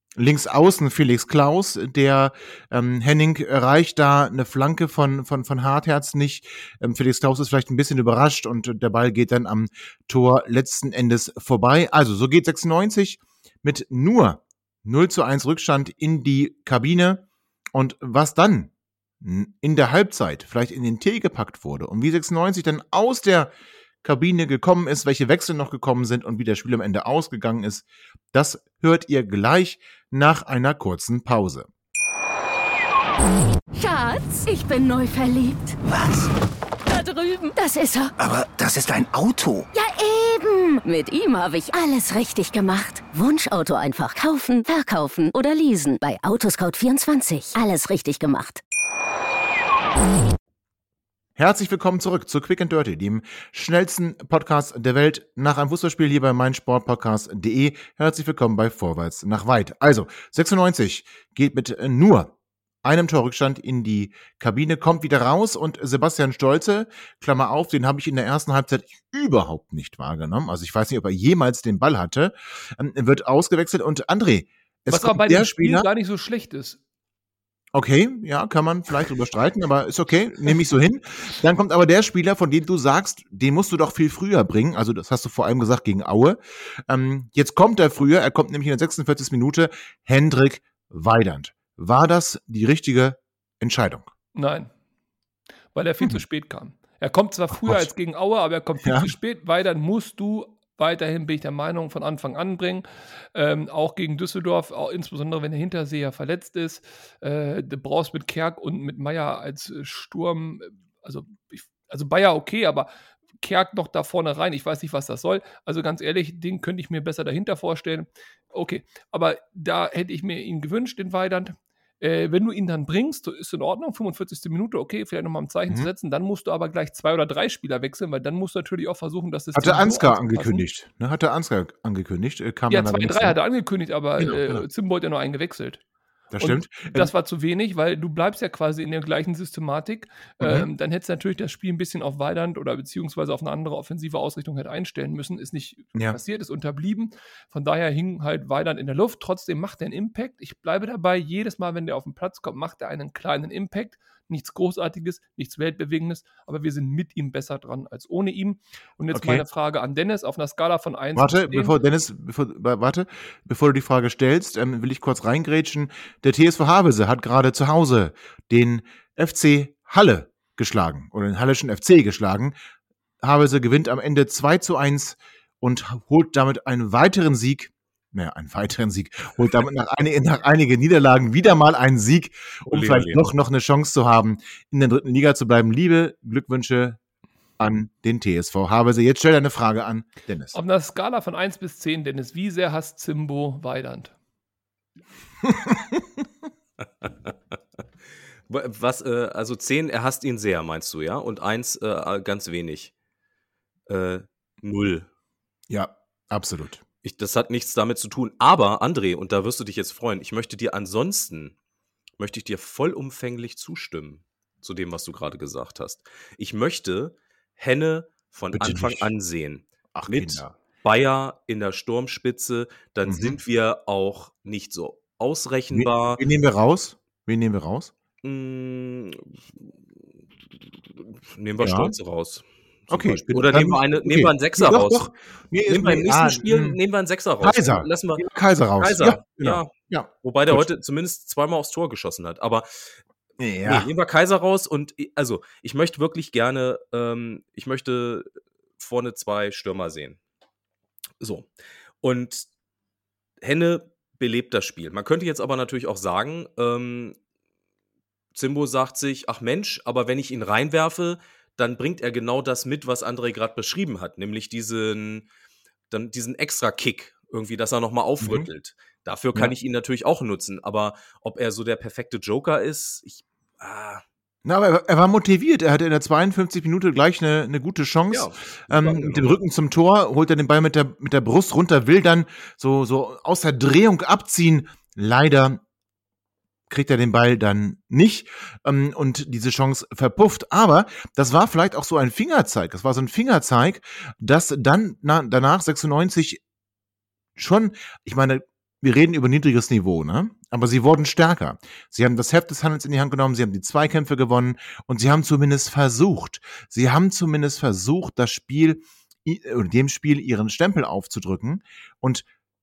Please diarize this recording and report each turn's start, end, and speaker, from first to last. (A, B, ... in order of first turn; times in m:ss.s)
0:00.2-0:31.7 A
0:33.7-0:35.8 B
0:35.8-0:36.3 C
0:36.8-0:38.1 B
0:38.2-0:39.7 C
0:39.7-0:48.6 B
0:51.4-1:15.9 A
1:14.9-1:16.8 D
1:17.7-1:34.1 A
1:34.3-1:34.7 D
1:35.7-1:52.9 D
1:37.6-1:37.9 A
1:38.8-1:39.1 A
1:53.4-2:10.6 D
2:09.5-2:13.4 A
2:12.7-2:15.8 D
2:14.2-2:14.6 A
2:16.3-2:17.1 A
2:16.4-2:41.8 D
2:20.4-2:20.6 A
2:39.1-2:39.4 A
2:41.2-2:52.5 A
2:53.2-3:07.0 A
3:02.7-3:03.2 E
3:07.6-3:10.6 A
3:10.5-3:14.1 D
3:15.4-3:16.0 A
3:17.0-3:17.3 E
3:18.5-3:22.9 E
3:23.9-3:25.1 E
3:25.7-3:26.8 A
3:27.0-3:31.5 E
3:32.2-3:46.2 E
3:38.5-3:39.1 A
3:40.0-3:40.5 A
3:43.0-3:43.4 A
3:45.7-3:47.9 A
3:48.2-3:49.7 E
3:50.9-3:55.1 E
3:51.6-3:51.9 A
3:52.9-3:56.8 A
3:55.7-3:58.2 E
3:57.4-4:00.6 A
3:58.8-4:02.7 E
4:03.4-4:03.9 A
4:03.6-4:08.3 E
4:08.8-4:10.2 E
4:11.2-4:11.5 E
4:12.0-4:12.5 E
4:13.4-4:17.2 E
4:18.3-4:25.3 E
4:25.9-4:34.0 E
4:28.2-4:28.5 A
4:34.4-4:45.6 A
4:38.1-4:39.4 E
4:46.7-4:56.4 A
4:57.4-5:12.2 A